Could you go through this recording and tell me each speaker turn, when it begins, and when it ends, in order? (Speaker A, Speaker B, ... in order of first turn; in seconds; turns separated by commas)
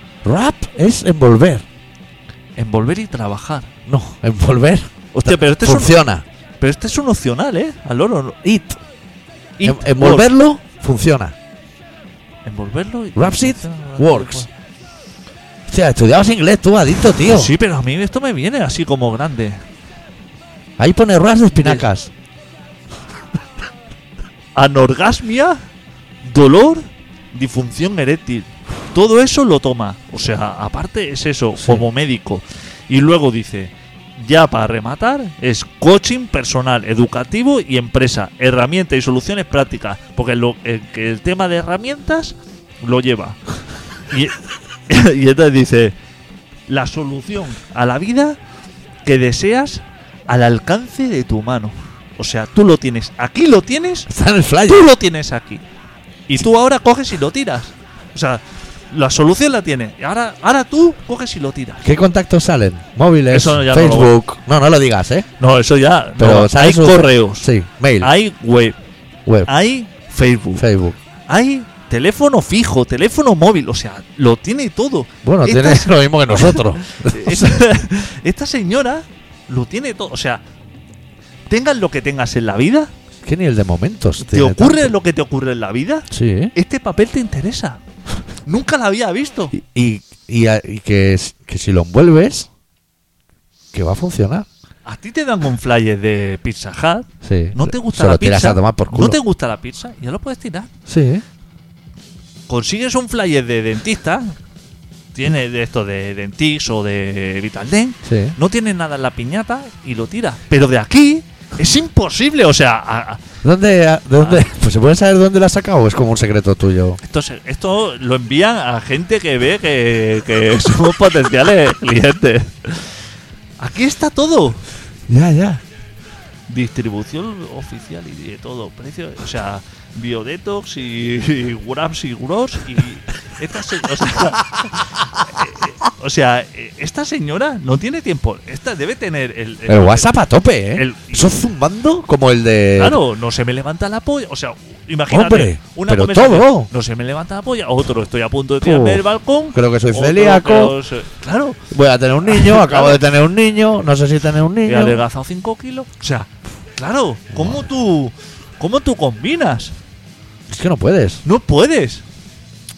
Speaker A: 0.2-1.6, Speaker B: 2.5-3.7, Speaker A: 3.9-6.2, Speaker B: 5.1-6.0, Speaker B: 6.6-8.4, Speaker A: 8.4-8.8, Speaker B: 9.6-10.3, Speaker A: 9.6-11.3, Speaker B: 12.4-14.5, Speaker A: 13.1-14.5, Speaker A: 15.7-17.5, Speaker B: 17.2-19.6, Speaker A: 20.8-22.1, Speaker B: 21.5-21.9, Speaker B: 24.5-25.6, Speaker B: 26.2-43.4, Speaker A: 31.6-31.8, Speaker B: 44.1-45.9, Speaker B: 46.7-48.4, Speaker B: 49.0-54.1, Speaker A: 54.1-54.8, Speaker B: 54.7-55.6, Speaker B: 56.3-61.9, Speaker A: 61.8-65.3, Speaker B: 63.3-64.2, Speaker B: 65.4-67.5, Speaker A: 66.2-68.1, Speaker B: 68.0-68.8, Speaker B: 69.5-70.7, Speaker A: 70.5-71.0, Speaker B: 71.3-80.4, Speaker A: 75.2-77.6, Speaker B: 81.5-82.9, Speaker A: 83.2-84.9, Speaker B: 84.2-87.8, Speaker A: 86.1-86.5, Speaker B: 88.5-89.5, Speaker A: 89.5-92.5, Speaker A: 93.7-94.5, Speaker B: 94.8-100.7, Speaker A: 97.2-99.2, Speaker A: 100.9-101.2, Speaker B: 102.5-104.3, Speaker B: 105.1-113.2, Speaker A: 108.0-108.3, Speaker A: 113.4-117.0, Speaker B: 114.2-114.5, Speaker B: 117.0-122.9, Speaker B: 123.6-124.6, Speaker A: 125.1-125.6, Speaker B: 126.5-140.1, Speaker A: 139.7-143.0, Speaker B: 140.7-141.3, Speaker B: 142.8-151.6, Speaker A: 145.1-146.7, Speaker A: 148.6-150.7, Speaker A: 151.7-155.0, Speaker B: 152.2-153.0, Speaker B: 154.6-159.7, Speaker A: 157.3-157.6, Speaker A: 160.5-161.2, Speaker B: 161.2-162.0